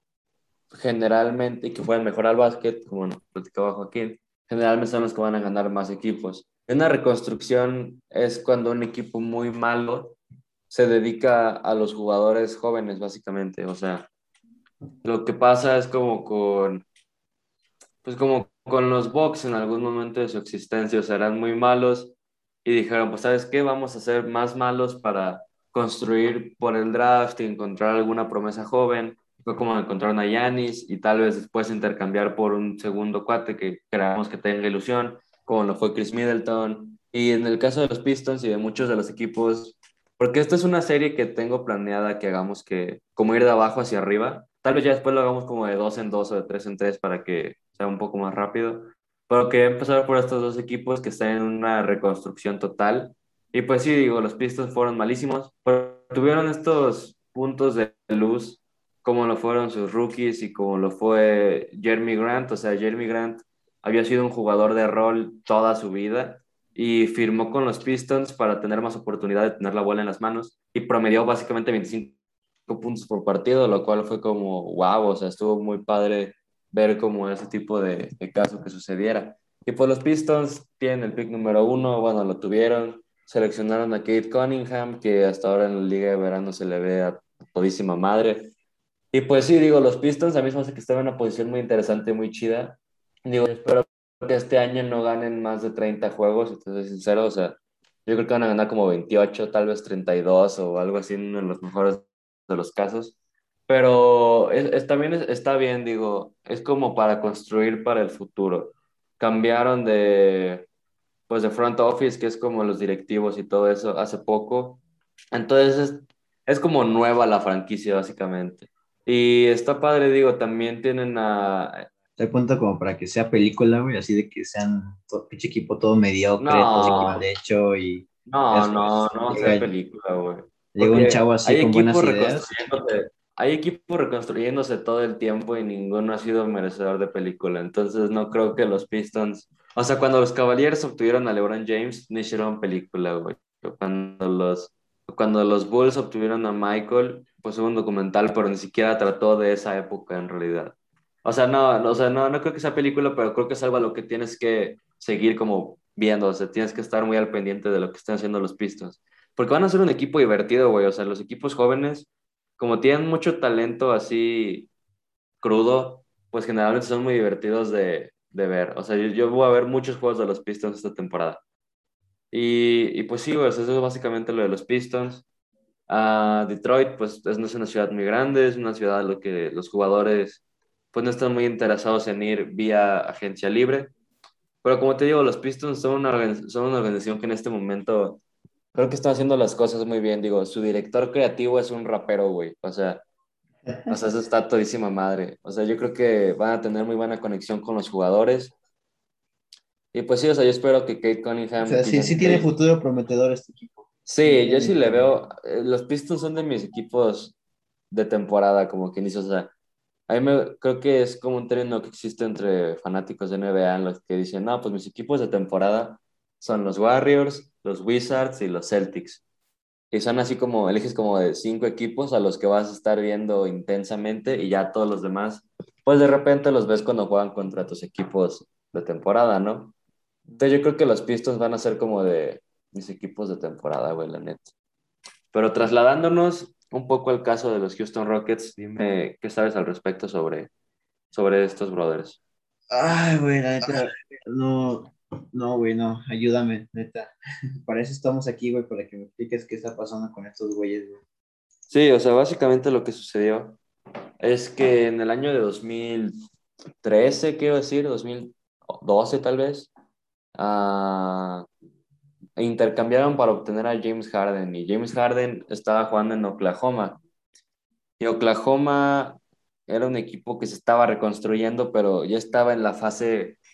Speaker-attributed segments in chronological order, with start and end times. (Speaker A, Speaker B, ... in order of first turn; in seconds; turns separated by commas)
Speaker A: 0.7-10.2, Speaker A: 10.7-14.1, Speaker A: 15.0-16.9, Speaker A: 18.0-72.2, Speaker A: 72.7-88.5, Speaker A: 89.1-103.2, Speaker A: 103.7-110.7, Speaker A: 111.3-121.9, Speaker B: 122.2-129.7, Speaker A: 126.4-127.2, Speaker A: 128.3-164.7, Speaker B: 130.8-132.5, Speaker A: 165.4-171.4, Speaker A: 172.3-175.2, Speaker A: 175.9-180.4, Speaker A: 180.9-183.9, Speaker A: 184.6-188.2, Speaker A: 188.7-193.0, Speaker B: 193.7-194.0, Speaker A: 193.9-198.5, Speaker A: 199.9-202.5, Speaker B: 201.6-205.1, Speaker A: 204.1-207.4, Speaker A: 207.9-209.5, Speaker A: 210.1-219.2, Speaker A: 219.9-229.7, Speaker A: 230.4-234.5, Speaker A: 235.3-240.5, Speaker A: 241.1-242.2, Speaker B: 242.7-247.1, Speaker B: 247.6-251.0, Speaker A: 251.7-253.6, Speaker A: 254.2-256.2, Speaker A: 256.8-259.7, Speaker A: 260.4-261.5, Speaker A: 262.4-267.0, Speaker A: 268.0-273.4